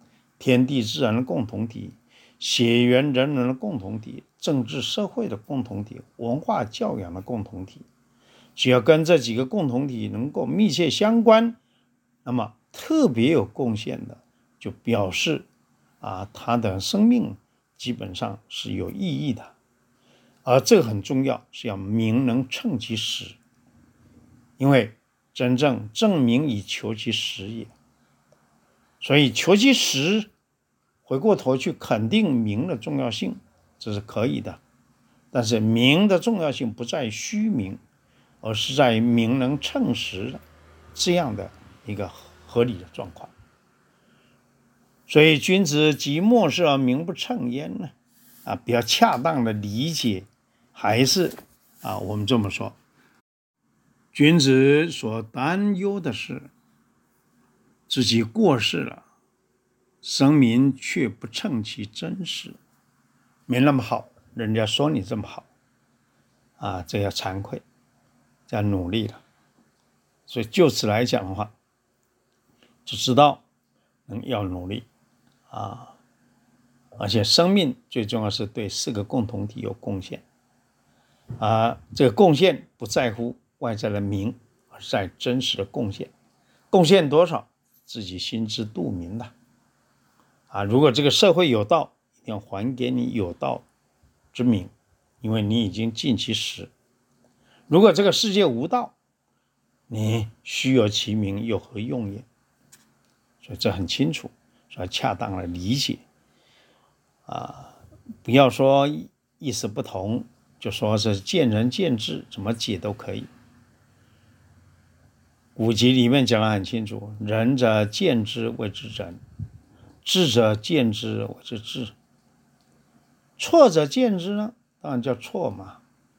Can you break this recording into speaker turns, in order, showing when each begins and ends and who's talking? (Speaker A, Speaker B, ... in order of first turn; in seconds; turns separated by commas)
Speaker A: 0.4-7.8, Speaker A: 8.6-11.6, Speaker A: 12.2-15.5, Speaker A: 16.0-19.5, Speaker A: 20.4-23.4, Speaker A: 24.6-27.7, Speaker A: 29.0-30.3, Speaker A: 31.1-34.6, Speaker A: 35.3-37.8, Speaker A: 38.4-40.4, Speaker A: 40.9-43.3, Speaker A: 45.1-47.9, Speaker A: 48.4-52.8, Speaker A: 54.1-56.5, Speaker A: 57.9-59.0, Speaker A: 60.0-62.6, Speaker A: 63.5-65.5, Speaker A: 66.6-67.6, Speaker A: 68.5-69.2, Speaker A: 70.3-71.5, Speaker A: 72.8-73.4, Speaker A: 74.1-74.9, Speaker A: 75.5-76.0, Speaker A: 77.0-80.2, Speaker A: 81.4-86.1, Speaker A: 86.7-89.3, Speaker A: 90.5-93.6, Speaker A: 94.3-96.7, Speaker A: 97.7-99.0, Speaker A: 99.9-102.2, Speaker A: 103.4-106.0, Speaker A: 107.2-113.3, Speaker A: 115.5-119.2, Speaker A: 120.0-121.9, Speaker A: 123.4-125.8